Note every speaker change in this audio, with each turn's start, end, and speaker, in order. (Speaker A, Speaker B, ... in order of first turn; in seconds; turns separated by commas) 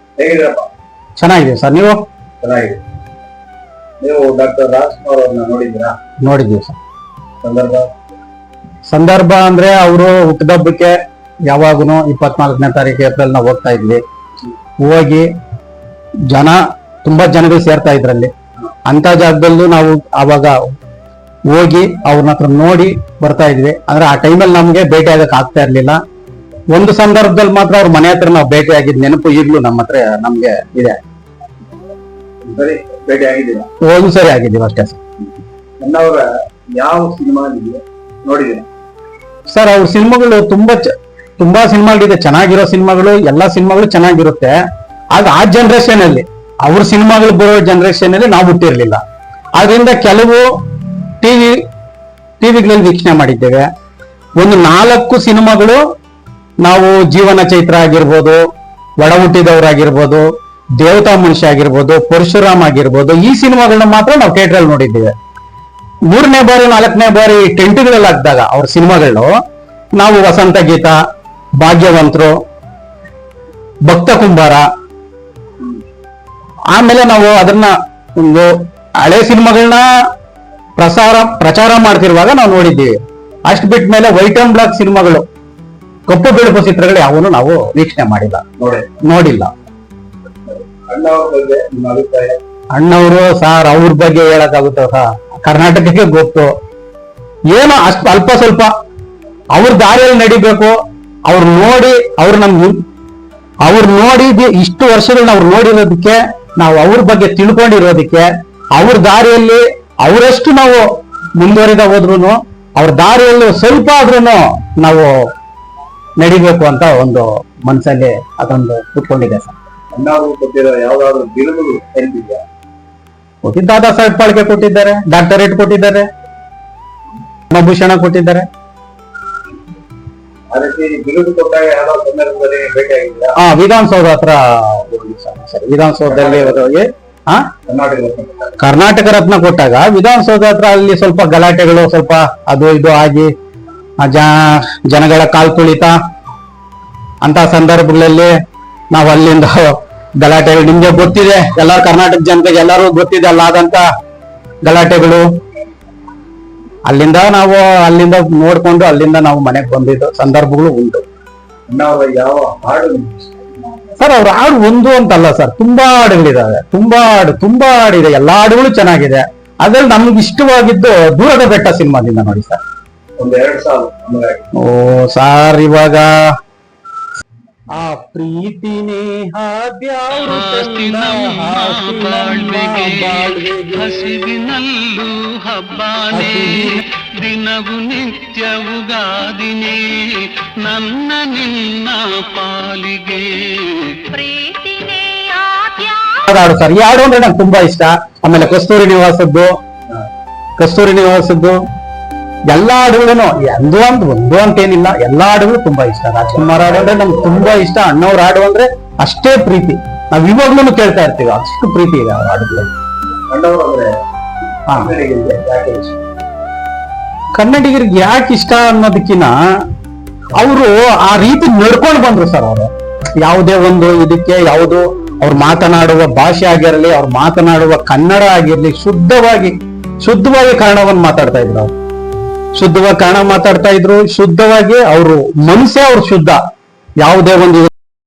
Speaker A: 0.2-0.7, Speaker B: 1.2-2.0, Speaker A: 2.4-2.8, Speaker A: 4.0-6.0, Speaker B: 6.2-6.8, Speaker A: 7.4-7.9, Speaker B: 8.9-11.0, Speaker B: 11.5-14.0, Speaker B: 14.8-15.3, Speaker B: 16.3-18.3, Speaker B: 18.9-20.6, Speaker B: 21.5-26.0, Speaker B: 26.7-31.0, Speaker A: 32.4-33.7, Speaker B: 33.8-35.0, Speaker A: 35.8-38.7, Speaker B: 39.5-40.9, Speaker B: 41.4-44.5, Speaker B: 45.1-49.0, Speaker B: 49.5-50.5, Speaker B: 51.2-51.6, Speaker B: 52.4-53.7, Speaker B: 54.4-55.8, Speaker B: 56.6-58.4, Speaker B: 59.0-60.3, Speaker B: 60.8-65.1, Speaker B: 66.1-69.3, Speaker B: 70.0-71.0, Speaker B: 71.6-72.4, Speaker B: 73.8-74.7, Speaker B: 76.7-79.8, Speaker B: 80.8-82.9, Speaker B: 83.5-85.3, Speaker B: 86.1-88.4, Speaker A: 88.6-89.0, Speaker B: 89.0-89.5, Speaker A: 90.5-92.4, Speaker B: 92.7-96.5, Speaker B: 97.5-98.7, Speaker B: 99.5-102.8, Speaker B: 103.6-115.2, Speaker B: 116.2-119.5, Speaker A: 119.9-122.4, Speaker B: 123.4-126.1, Speaker B: 127.5-128.5, Speaker A: 130.5-133.3, Speaker B: 133.4-137.5, Speaker A: 136.1-136.6, Speaker A: 137.7-138.6, Speaker B: 138.6-143.3, Speaker B: 144.0-145.9, Speaker B: 147.2-148.3, Speaker B: 148.9-153.8, Speaker B: 154.6-155.2, Speaker B: 156.9-161.0, Speaker A: 161.7-163.4, Speaker B: 164.0-172.6, Speaker A: 173.2-174.4, Speaker B: 174.6-176.1, Speaker B: 177.8-184.0, Speaker C: 180.2-194.3, Speaker B: 186.1-186.8, Speaker D: 194.1-196.2, Speaker B: 196.3-199.5, Speaker B: 200.6-201.6, Speaker B: 202.5-212.7, Speaker A: 206.3-207.6, Speaker A: 213.3-213.9, Speaker A: 214.7-216.0, Speaker B: 217.3-219.3, Speaker B: 220.3-222.7, Speaker B: 223.2-231.7, Speaker B: 232.6-236.4, Speaker B: 237.0-237.7